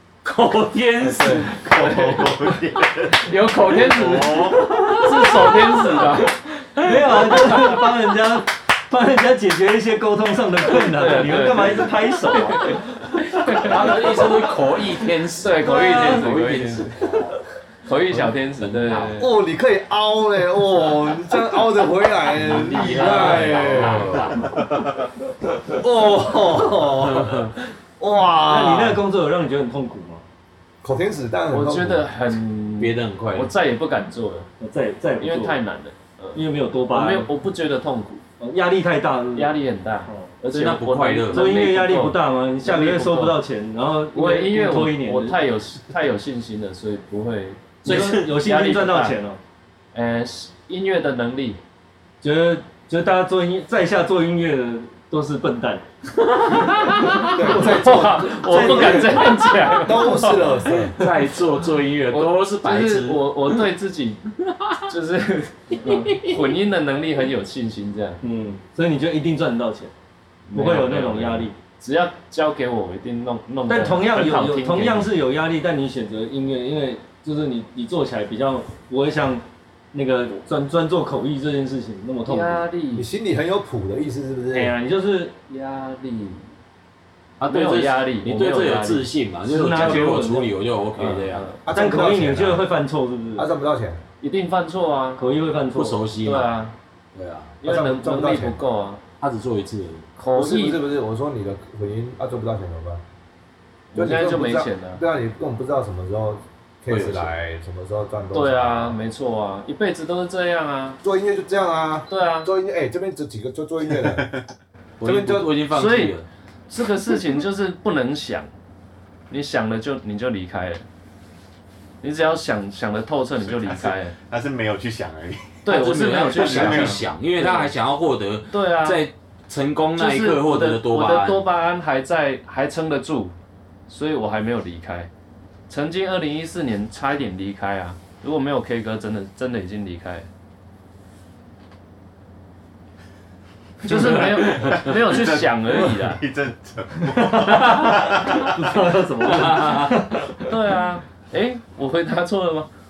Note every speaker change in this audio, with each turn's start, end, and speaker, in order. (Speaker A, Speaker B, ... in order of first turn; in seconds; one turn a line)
Speaker A: 0.2-2.3
Speaker B: 1.0-2.5
Speaker C: 1.2-5.1
Speaker B: 3.1-6.4
Speaker A: 3.8-7.8
Speaker D: 6.8-12.8
Speaker B: 7.3-7.8
Speaker B: 10.8-14.2
Speaker A: 13.4-17.4
Speaker B: 15.3-17.3
Speaker B: 17.9-19.3
Speaker A: 18.1-19.2
Speaker E: 19.2-24.5
Speaker A: 22.4-24.5
Speaker B: 22.7-23.8
Speaker E: 25.8-29.0
Speaker A: 27.0-27.5
Speaker D: 28.4-30.2
Speaker E: 30.8-32.1
Speaker B: 31.5-34.5
Speaker A: 32.8-33.5
Speaker D: 34.6-35.6
Speaker B: 35.2-38.2
Speaker D: 36.3-37.3
Speaker D: 38.4-39.5
Speaker B: 39.3-43.4
Speaker A: 40.5-41.5
Speaker D: 41.3-45.4
Speaker B: 44.1-49.1
Speaker D: 47.8-49.4
Speaker A: 47.8-48.3
Speaker B: 49.9-51.6
Speaker D: 52.2-55.8
Speaker B: 56.6-61.1
Speaker D: 56.7-57.2
Speaker E: 57.3-61.0
Speaker D: 58.4-59.3
Speaker A: 60.7-63.6
Speaker B: 62.1-64.2
Speaker B: 64.8-68.2
Speaker A: 65.9-66.4
Speaker D: 68.2-69.9
Speaker B: 70.5-75.1
Speaker D: 70.5-71.5
Speaker D: 73.7-82.7
Speaker B: 82.2-83.0
Speaker E: 82.9-84.7
Speaker D: 84.5-85.3
Speaker B: 85.5-86.4
Speaker A: 87.4-91.5
Speaker B: 87.4-89.1
Speaker D: 89.5-91.0
Speaker B: 91.0-91.6
Speaker E: 91.7-92.7
Speaker D: 91.7-93.5
Speaker E: 93.3-94.0
Speaker B: 94.2-95.2
Speaker D: 95.2-96.0
Speaker A: 95.7-96.5
Speaker B: 96.2-96.7
Speaker A: 97.1-97.6
Speaker B: 97.6-99.0
Speaker E: 97.6-98.6
Speaker A: 99.2-100.0
Speaker B: 100.2-100.8
Speaker E: 100.3-103.0
Speaker B: 103.9-105.0
Speaker E: 103.9-109.0
Speaker A: 106.9-107.3
Speaker B: 108.3-111.0
Speaker E: 111.0-114.3
Speaker B: 112.1-112.5
Speaker C: 114.0-114.4
Speaker A: 115.0-116.2
Speaker E: 115.0-115.5
Speaker B: 115.7-116.2
Speaker B: 116.7-118.5
Speaker B: 119.3-120.8
Speaker B: 122.0-124.1
Speaker C: 123.3-127.0
Speaker B: 125.7-127.7
Speaker A: 125.7-131.4
Speaker B: 128.5-129.0
Speaker B: 129.9-133.3
Speaker B: 133.9-135.1
Speaker B: 135.7-140.3
Speaker B: 143.8-146.2
Speaker C: 144.0-148.6
Speaker A: 144.4-144.8
Speaker D: 147.0-150.6
Speaker A: 149.2-150.1
Speaker B: 150.4-152.7